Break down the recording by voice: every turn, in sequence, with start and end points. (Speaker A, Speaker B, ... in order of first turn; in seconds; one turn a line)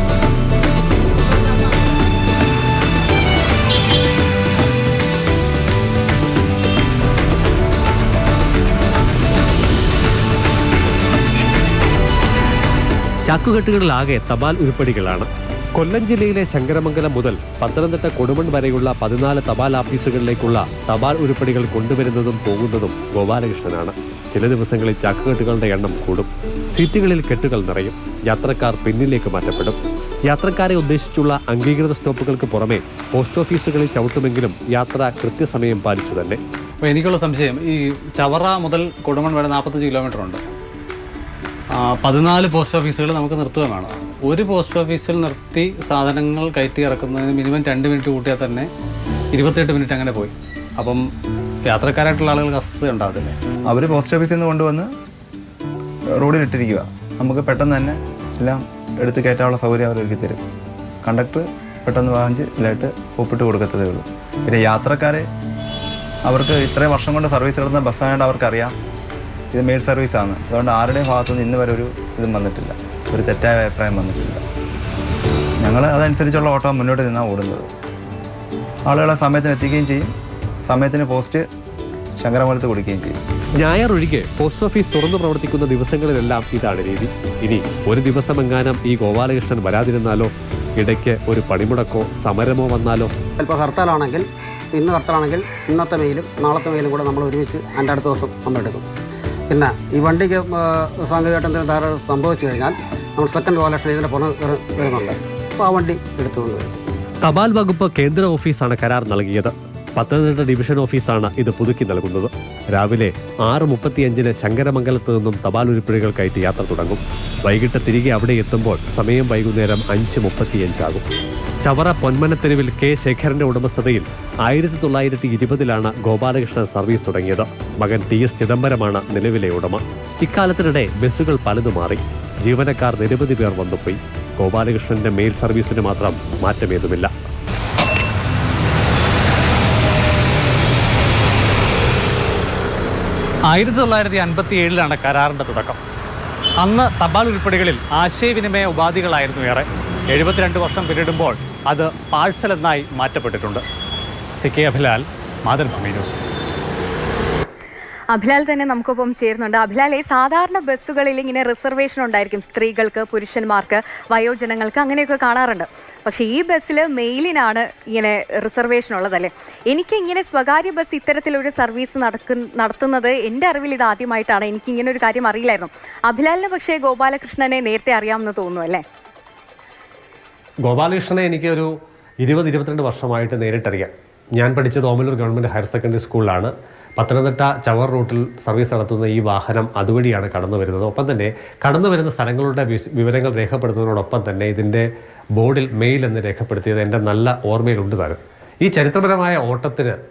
Speaker A: 13.3-36.4
Speaker B: 36.8-40.4
Speaker B: 41.7-48.7
Speaker B: 49.3-51.0
Speaker B: 51.6-53.4
Speaker C: 53.7-54.9
Speaker C: 56.2-60.4
Speaker C: 61.0-65.3
Speaker C: 66.2-68.7
Speaker C: 69.5-74.4
Speaker C: 75.6-77.7
Speaker C: 78.9-80.1
Speaker C: 80.7-81.5
Speaker C: 82.2-83.2
Speaker A: 83.6-93.1
Speaker D: 93.4-98.9
Speaker D: 99.5-106.7
Speaker A: 107.2-121.0
Speaker A: 121.6-137.1
Speaker B: 143.5-145.8
Speaker B: 146.6-153.6
Speaker B: 154.3-156.3
Speaker E: 158.1-178.8
Speaker A: 180.7-181.7
Speaker A: 182.2-200.0